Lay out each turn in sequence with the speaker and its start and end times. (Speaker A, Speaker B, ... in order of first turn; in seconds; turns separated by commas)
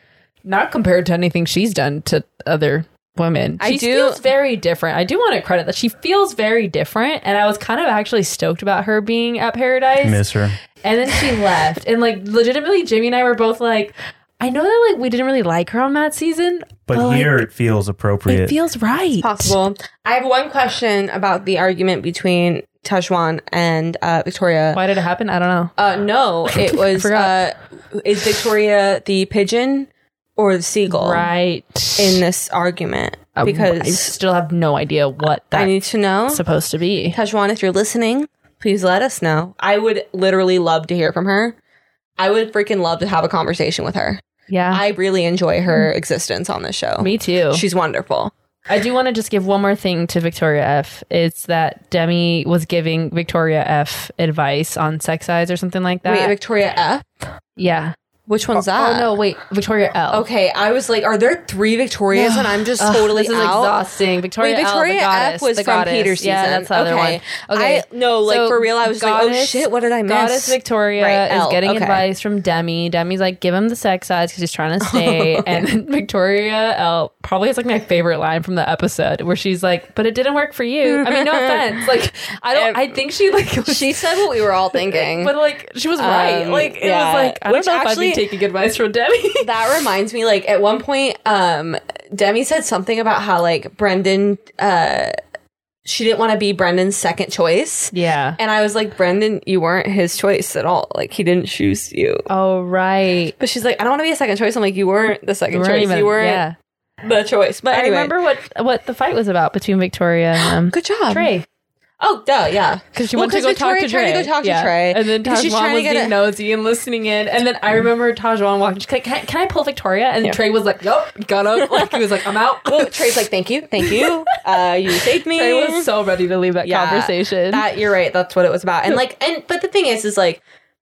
Speaker A: 0.4-10.2, Speaker B: 3.6-4.2, Speaker C: 10.0-10.6, Speaker A: 10.8-17.4, Speaker C: 16.9-18.6, Speaker A: 18.3-19.6, Speaker B: 19.2-24.8, Speaker A: 24.7-25.7, Speaker B: 25.8-31.3, Speaker A: 26.5-27.3, Speaker A: 30.9-32.2, Speaker B: 32.0-34.1, Speaker A: 33.4-35.7, Speaker B: 35.5-36.4, Speaker A: 36.3-37.2, Speaker B: 37.1-41.5, Speaker B: 42.2-48.3, Speaker A: 44.5-44.8, Speaker A: 47.0-47.6, Speaker A: 48.7-56.3, Speaker B: 56.0-57.1, Speaker A: 57.6-57.9, Speaker B: 58.3-59.1, Speaker A: 58.5-60.2, Speaker B: 60.1-63.7, Speaker A: 62.1-89.5, Speaker B: 64.4-72.0, Speaker B: 74.8-75.7, Speaker B: 80.8-81.8, Speaker B: 82.5-82.9, Speaker B: 83.6-85.3, Speaker B: 86.0-88.2, Speaker B: 89.4-95.1, Speaker B: 95.8-102.2, Speaker A: 97.9-98.4, Speaker A: 102.3-103.3, Speaker B: 103.4-106.4, Speaker A: 105.5-106.5, Speaker B: 107.0-108.1, Speaker A: 107.7-111.4, Speaker B: 110.4-111.3, Speaker B: 112.0-116.1, Speaker A: 112.9-123.1, Speaker B: 121.6-122.1, Speaker B: 122.6-125.9, Speaker A: 123.8-124.4, Speaker A: 125.2-127.6, Speaker B: 126.6-130.4